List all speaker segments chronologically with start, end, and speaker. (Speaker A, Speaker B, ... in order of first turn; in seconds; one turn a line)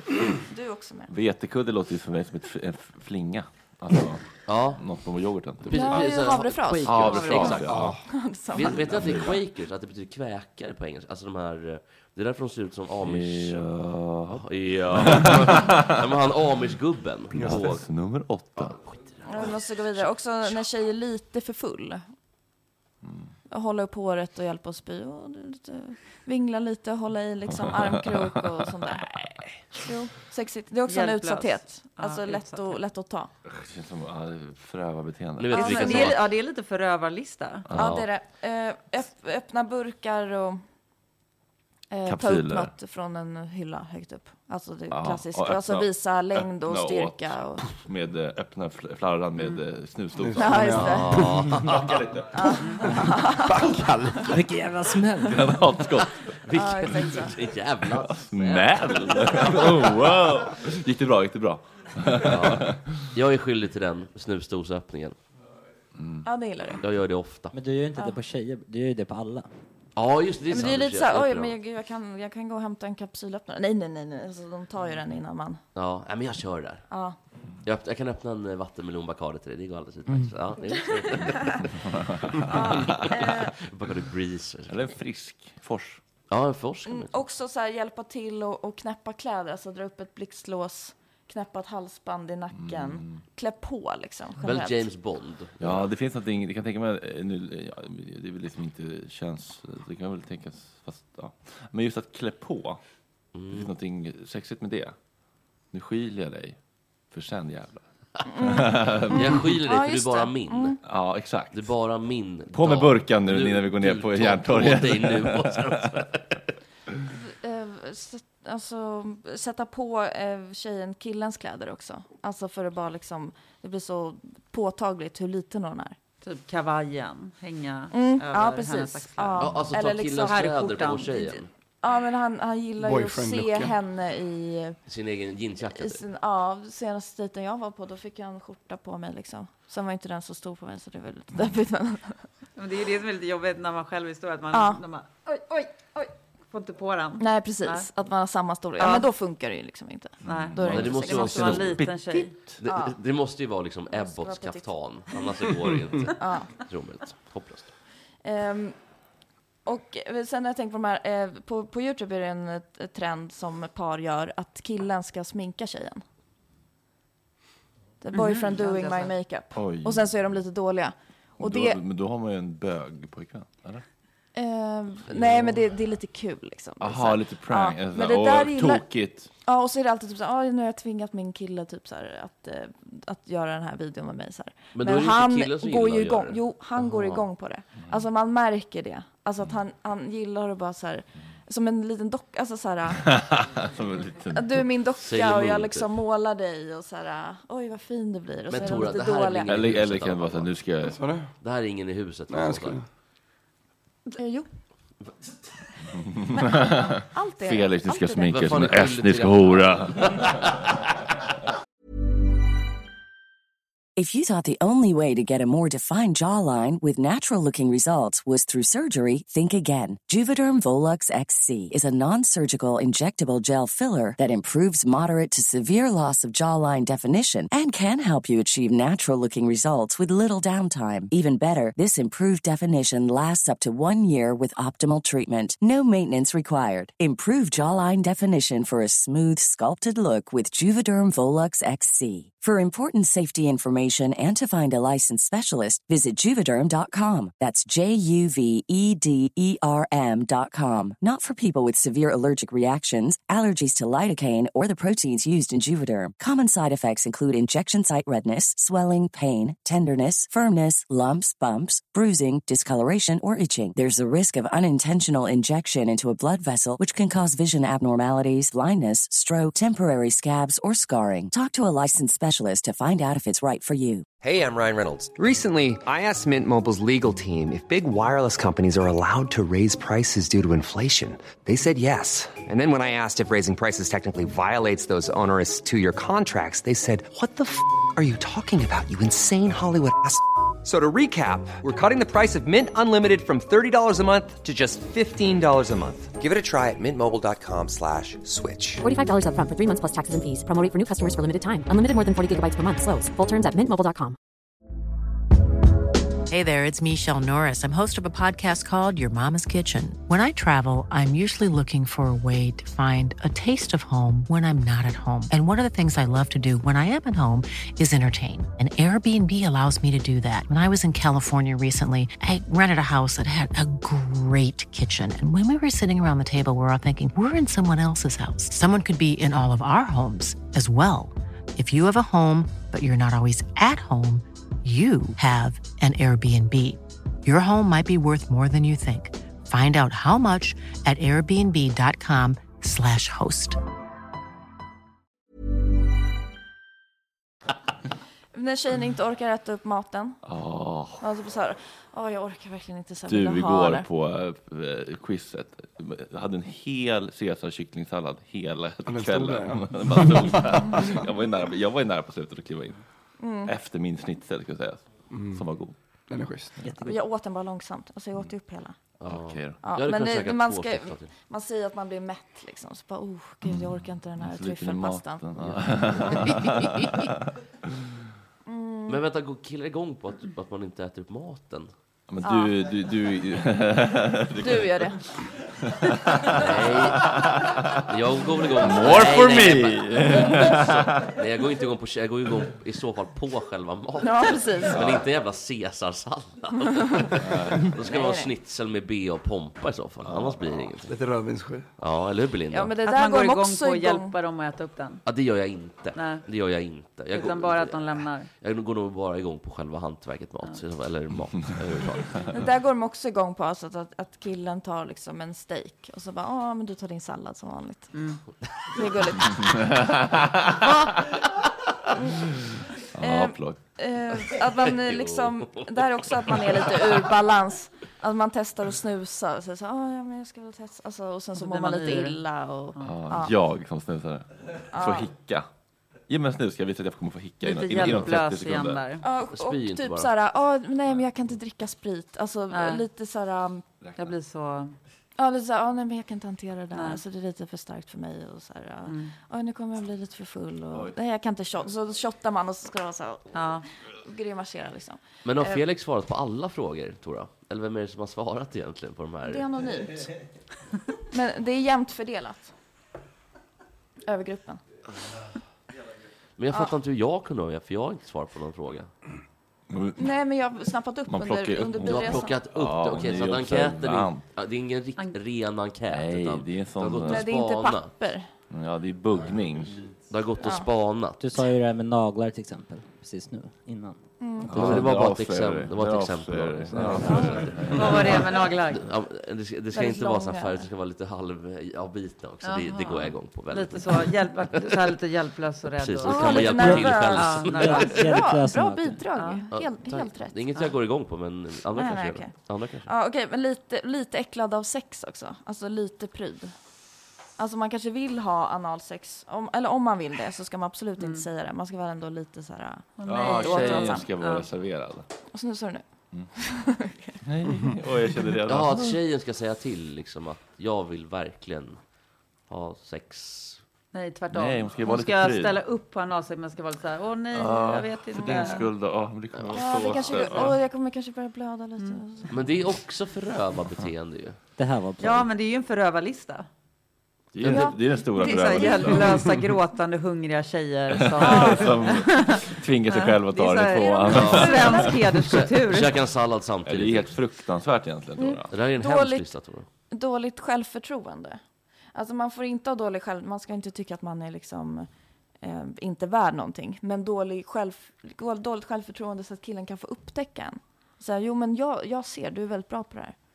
Speaker A: 0.5-1.1
Speaker B: 1.1-6.0
Speaker C: 4.5-4.8
Speaker C: 5.6-7.7
Speaker A: 5.7-8.9
Speaker B: 6.8-8.0
Speaker D: 7.0-7.5
Speaker E: 7.6-8.0
Speaker C: 8.5-13.7
Speaker B: 8.9-9.3
Speaker B: 13.0-15.9
Speaker C: 14.3-17.9
Speaker B: 17.4-18.8
Speaker C: 18.6-20.6
Speaker A: 19.3-22.1
Speaker B: 23.0-23.3
Speaker A: 23.5-33.3
Speaker D: 30.9-32.8
Speaker B: 33.5-36.1
Speaker C: 35.4-36.2
Speaker A: 35.5-36.1
Speaker D: 35.6-37.7
Speaker B: 37.7-38.0
Speaker A: 37.7-40.6
Speaker C: 37.8-38.1
Speaker A: 41.9-47.6
Speaker B: 42.1-42.7
Speaker B: 44.9-50.9
Speaker E: 50.2-51.0
Speaker A: 50.4-51.3
Speaker C: 50.7-52.0
Speaker B: 51.5-52.6
Speaker A: 52.3-53.6
Speaker F: 54.2-55.6
Speaker B: 55.2-56.3
Speaker C: 56.5-59.7
Speaker A: 56.5-57.3
Speaker B: 58.0-63.0
Speaker C: 62.1-65.2
Speaker B: 66.0-66.2
Speaker A: 66.2-66.8
Speaker C: 66.8-67.6
Speaker F: 67.5-69.5
Speaker C: 70.0-71.6
Speaker A: 70.5-75.6
Speaker C: 75.8-76.9
Speaker A: 76.9-77.2
Speaker C: 77.6-81.6
Speaker A: 80.7-81.6
Speaker B: 82.4-83.1
Speaker A: 82.5-83.5
Speaker C: 82.7-84.9
Speaker B: 84.7-86.0
Speaker C: 86.3-87.3
Speaker A: 86.9-94.9
Speaker B: 92.6-93.2
Speaker C: 94.4-95.9
Speaker B: 95.6-102.8
Speaker C: 103.3-103.7
Speaker B: 103.5-104.9
Speaker B: 105.7-106.6
Speaker B: 107.1-107.8
Speaker A: 108.3-110.8
Speaker B: 108.4-109.3
Speaker C: 109.1-110.8
Speaker B: 110.8-111.7
Speaker C: 111.5-116.4
Speaker B: 112.5-115.8
Speaker A: 117.2-126.0
Speaker D: 126.2-129.4
Speaker A: 127.9-134.8
Speaker C: 129.4-131.5
Speaker D: 130.2-131.2
Speaker E: 132.8-133.7
Speaker C: 134.9-136.0
Speaker A: 135.7-142.2
Speaker D: 142.6-147.9
Speaker A: 144.5-144.8
Speaker A: 147.2-151.6
Speaker D: 148.8-149.1
Speaker D: 150.2-152.4
Speaker B: 150.2-152.5
Speaker C: 150.7-151.8
Speaker C: 152.6-157.7
Speaker A: 152.7-153.0
Speaker A: 153.9-154.7
Speaker A: 156.2-156.5
Speaker A: 158.2-158.8
Speaker A: 159.7-166.0
Speaker A: 168.0-171.8
Speaker D: 168.1-169.2
Speaker B: 169.6-170.0
Speaker B: 171.4-173.8
Speaker A: 174.3-178.8
Speaker C: 175.2-175.4
Speaker B: 176.8-179.3
Speaker A: 179.4-193.1
Speaker C: 184.7-187.3
Speaker B: 193.0-194.7
Speaker A: 194.3-199.6
Speaker C: 195.0-195.9
Speaker C: 198.5-200.6
Speaker B: 199.4-201.0
Speaker E: 200.9-201.3
Speaker C: 201.4-202.8
Speaker E: 202.3-202.8
Speaker A: 204.2-204.5
Speaker B: 206.0-210.2
Speaker A: 206.3-208.3
Speaker C: 208.3-210.6
Speaker G: 213.9-274.1
Speaker H: 274.2-298.8
Speaker I: 298.8-304.2
Speaker J: 306.3-343.6
Speaker A: 348.3-350.2
Speaker B: 350.3-351.0
Speaker A: 351.0-353.9
Speaker B: 353.1-362.8
Speaker E: 358.9-361.0
Speaker A: 363.2-363.5
Speaker B: 363.4-365.7
Speaker E: 365.1-365.4
Speaker E: 366.1-366.5
Speaker F: 366.6-367.0
Speaker A: 366.8-368.8
Speaker C: 369.0-371.1
Speaker B: 369.1-369.6
Speaker A: 369.6-375.2
Speaker B: 373.4-377.1
Speaker C: 375.4-376.4
Speaker A: 378.4-379.0
Speaker C: 378.9-381.7
Speaker B: 382.1-385.0
Speaker A: 382.2-382.6
Speaker A: 384.4-385.0
Speaker B: 385.7-387.7
Speaker C: 386.4-387.1
Speaker C: 387.9-400.9
Speaker B: 388.6-391.1
Speaker A: 394.0-394.8
Speaker B: 397.2-397.6
Speaker A: 397.9-398.3
Speaker B: 400.1-400.3
Speaker E: 400.9-401.6
Speaker C: 401.8-402.8
Speaker A: 402.5-404.1
Speaker D: 402.8-405.0
Speaker C: 405.1-412.4
Speaker D: 405.9-406.3
Speaker D: 407.1-408.3
Speaker A: 412.3-417.9
Speaker D: 417.9-418.2
Speaker A: 418.7-419.8
Speaker B: 422.9-423.6
Speaker A: 423.0-433.3
Speaker C: 424.6-427.0
Speaker D: 431.4-432.2
Speaker B: 432.8-435.5
Speaker A: 434.7-435.1
Speaker B: 436.1-438.8
Speaker D: 437.4-439.1
Speaker A: 439.0-443.6
Speaker C: 439.2-440.2
Speaker D: 442.5-442.9
Speaker B: 443.8-444.1
Speaker D: 444.0-444.7
Speaker A: 445.2-455.6
Speaker D: 446.7-447.0
Speaker D: 448.9-449.1
Speaker D: 453.3-453.6
Speaker C: 455.2-459.5
Speaker A: 459.2-460.1
Speaker A: 461.1-462.5
Speaker A: 464.1-464.6
Speaker C: 466.4-468.9
Speaker B: 469.7-470.1
Speaker A: 470.0-472.4
Speaker B: 471.1-474.2
Speaker C: 471.8-478.1
Speaker B: 475.9-477.2
Speaker A: 477.1-478.3
Speaker B: 478.5-479.8
Speaker C: 480.1-481.2
Speaker F: 481.2-484.0
Speaker A: 484.2-484.6
Speaker C: 484.4-494.9
Speaker B: 484.5-488.3
Speaker D: 487.7-488.9
Speaker A: 489.7-490.7
Speaker D: 492.4-496.5
Speaker C: 495.7-498.0
Speaker A: 496.0-500.4
Speaker F: 496.6-499.1
Speaker D: 497.1-497.9
Speaker D: 499.1-499.4
Speaker C: 499.5-502.9
Speaker A: 501.7-506.6
Speaker A: 507.4-514.1
Speaker D: 511.0-511.3
Speaker D: 513.0-514.5
Speaker B: 513.1-515.1
Speaker A: 515.3-515.8
Speaker A: 516.4-517.2
Speaker B: 517.2-519.0
Speaker C: 518.4-521.8
Speaker C: 522.5-523.6
Speaker D: 523.9-528.7
Speaker B: 524.3-525.6
Speaker B: 527.3-530.5
Speaker A: 529.5-532.3
Speaker C: 532.3-534.4
Speaker F: 534.6-535.3
Speaker D: 535.0-536.5
Speaker B: 537.4-539.3
Speaker C: 537.4-537.6
Speaker A: 537.5-539.1
Speaker D: 538.2-545.9
Speaker B: 541.0-544.9
Speaker A: 543.9-545.0
Speaker C: 544.1-547.2
Speaker B: 546.7-548.5
Speaker A: 548.2-549.3
Speaker C: 548.5-549.6
Speaker A: 549.9-551.4
Speaker A: 551.9-554.9
Speaker A: 555.4-563.1